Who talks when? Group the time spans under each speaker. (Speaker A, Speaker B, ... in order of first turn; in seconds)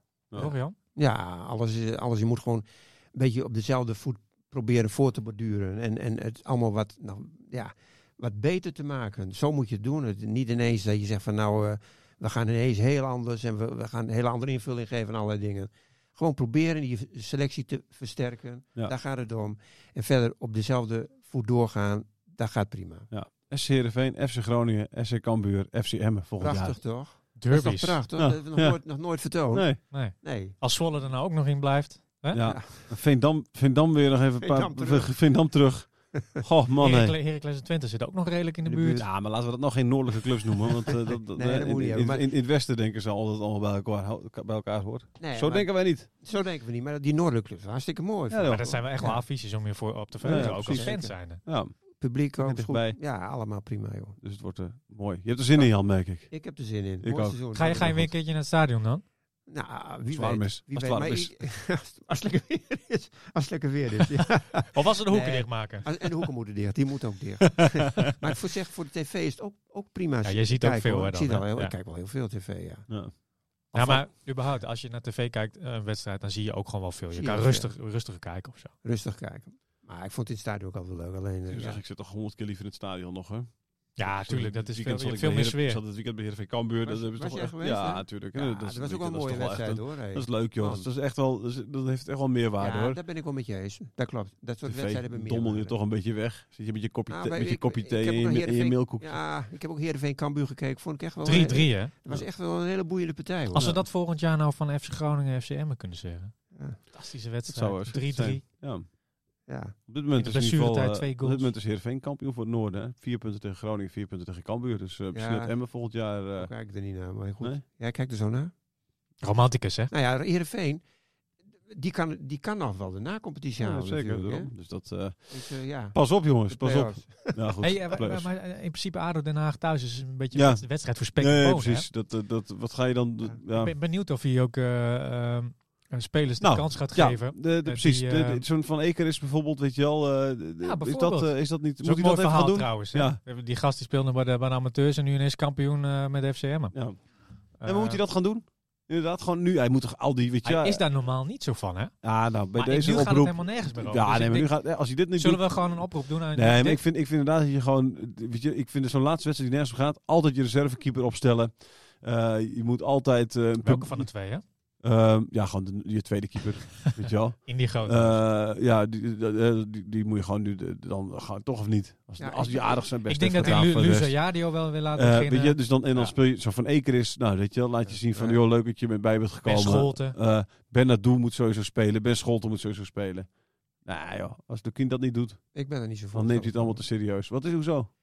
Speaker A: 0.3-0.8, 27.4-28.0, 29.9-32.4, 36.8-39.1, 48.5-51.4, 57.5-59.0, 64.7-65.9, 70.2-71.8, 73.7-78.7, 84.0-85.8, 101.2-101.9, 103.5-108.4, 110.2-111.5, 119.2-119.9, 127.6-131.9, 133.5-138.4, 140.6-146.8, 147.6-148.0, 150.4-151.9, 152.5-154.5, 155.2-156.8, 163.6-164.4, 166.8-168.2, 173.1-175.6, 179.4-180.2
Speaker B: 1.0-23.1, 26.4-30.6, 32.4-32.9, 34.4-35.1, 36.1-36.4, 41.4-42.3, 45.2-49.2, 50.2-51.4, 52.0-54.2, 56.3-58.1, 59.5-72.9, 77.1-77.7, 78.8-81.8, 86.8-90.8, 92.6-95.8, 97.1-103.8, 106.5-106.8, 109.5-109.8, 115.1-115.7, 116.3-118.5, 119.9-120.8, 121.7-124.5, 125.3-127.5, 172.2-172.8, 177.9-178.4, 185.6-186.8
Speaker C: 23.1-26.8, 28.2-28.8, 29.5-29.8, 32.3-37.2, 38.7-46.1, 48.3-48.7, 50.2-51.7, 52.4-53.0, 54.2-56.3, 57.0-57.4, 60.1-61.3, 67.6-68.2, 73.8-74.0, 81.5-93.0, 94.7-99.2, 107.5-108.8, 109.9-116.5, 123.6-125.4, 125.9-128.3, 130.3-133.7, 136.4-143.2, 146.7-147.0, 147.6-150.8, 152.0-155.7, 156.3-164.1, 164.8-174.2, 174.9-183.3, 183.8-185.4, 186.1-187.9